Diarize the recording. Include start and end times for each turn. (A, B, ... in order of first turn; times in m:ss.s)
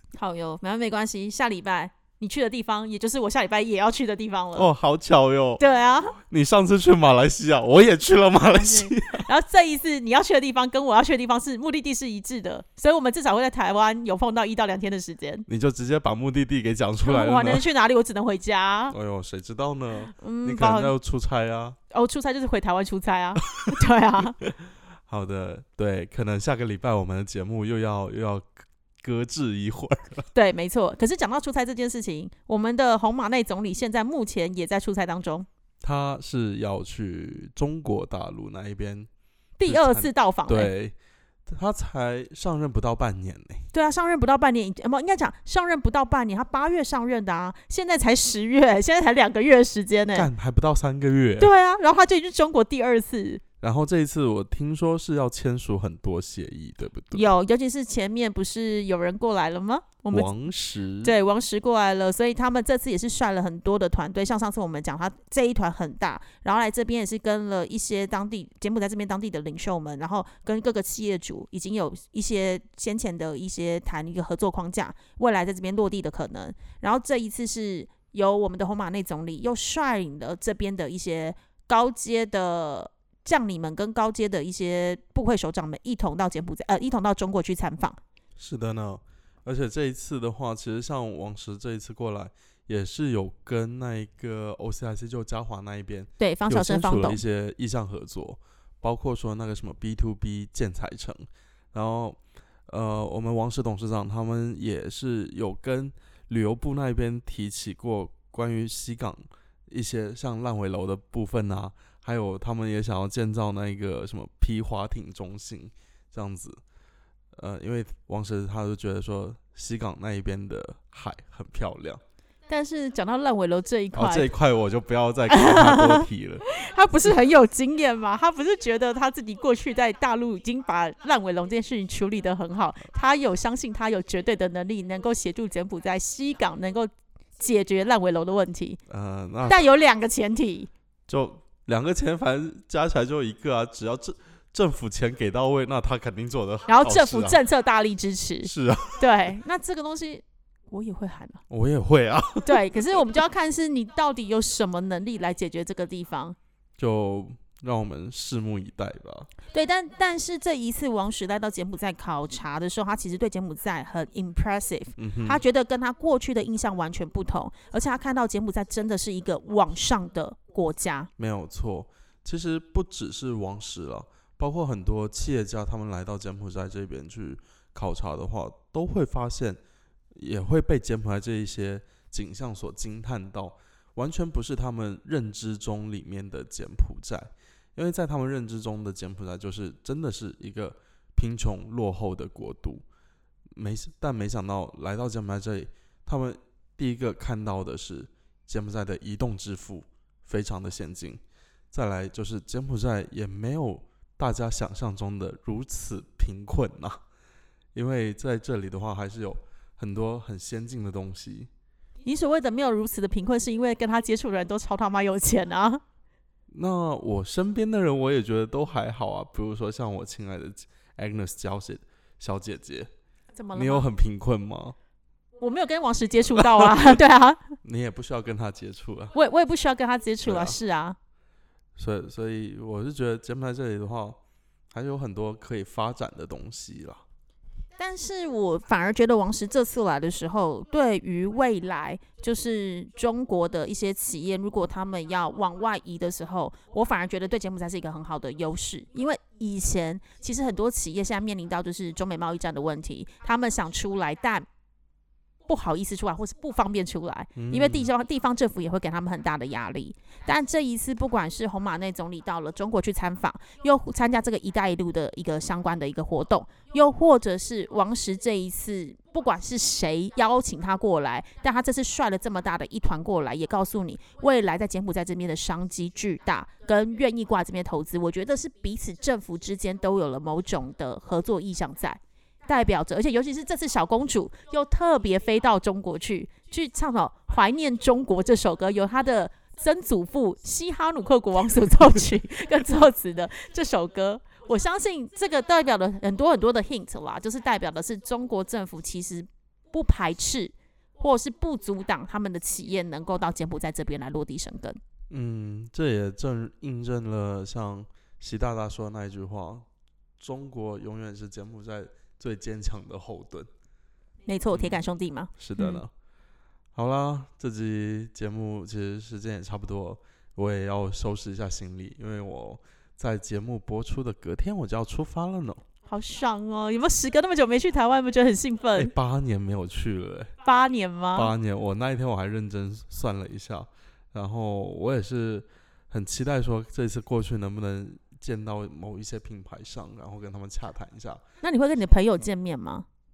0:00.1-0:04.7 A
0:04.6-0:05.6 B
0:05.6-0:06.2 A
0:06.3-0:09.3 B
0:08.5-0:15.4 A
0:15.5-0:17.6 B
0:17.0-0:19.0 A
0:18.9-0:21.8 B
0:20.2-0:20.9 A
0:21.9-0:24.4 A
0:25.1-0:30.3 B
0:30.3-0:35.5 A
0:35.8-0:39.1 B
0:39.6-0:40.7 A
0:39.6-0:41.0 B
0:41.5-0:43.7 B
0:43.7-0:50.3 A
0:50.1-0:51.5 B
0:51.4-0:53.4 A
0:53.6-0:57.2 B
0:57.1-1:00.3 A
1:00.1-1:01.2 B
1:01.0-1:28.0 A
1:28.4-1:56.6 B
1:36.2-1:37.2 A
1:57.3-2:02.0 B
2:02.5-2:04.3 A
2:03.9-2:06.4 B
2:05.3-2:18.8 A
2:18.9-2:19.6 B
2:19.5-2:20.7 A
2:21.1-2:27.4 B
2:26.7-2:31.4 A
2:28.4-2:29.1 B
2:31.5-2:32.8 B
2:32.4-2:36.4 A
2:36.8-2:39.3 B
2:39.5-2:51.1 A
2:45.0-2:45.4 B
2:51.2-2:59.6 B
3:00.1-3:12.8 B
3:13.5-3:21.2 B
3:21.7-3:27.0 B
3:27.7-3:31.5 B
3:32.0-3:35.8 A
3:36.5-3:42.9 B
3:43.4-3:43.9 A
3:43.5-3:44.8 B
3:45.4-3:47.6 A
3:47.6-3:49.2 B
3:49.1-3:51.0 A
3:50.2-3:50.6 B
3:51.8-3:54.2 B
3:54.7-3:57.0 B
3:57.8-4:14.5 A
4:15.5-5:04.8 A
4:17.4-4:17.9 B
5:05.1-5:09.6 B
5:10.2-5:13.5 B
5:14.3-5:15.8 A
5:14.5-5:14.8 B
5:15.4-5:15.9 B
5:16.8-5:25.6 B
5:25.9-5:28.9 A
5:28.8-5:30.3 B
5:30.4-5:31.3 A
5:31.2-5:41.2 B
5:41.4-5:42.9 A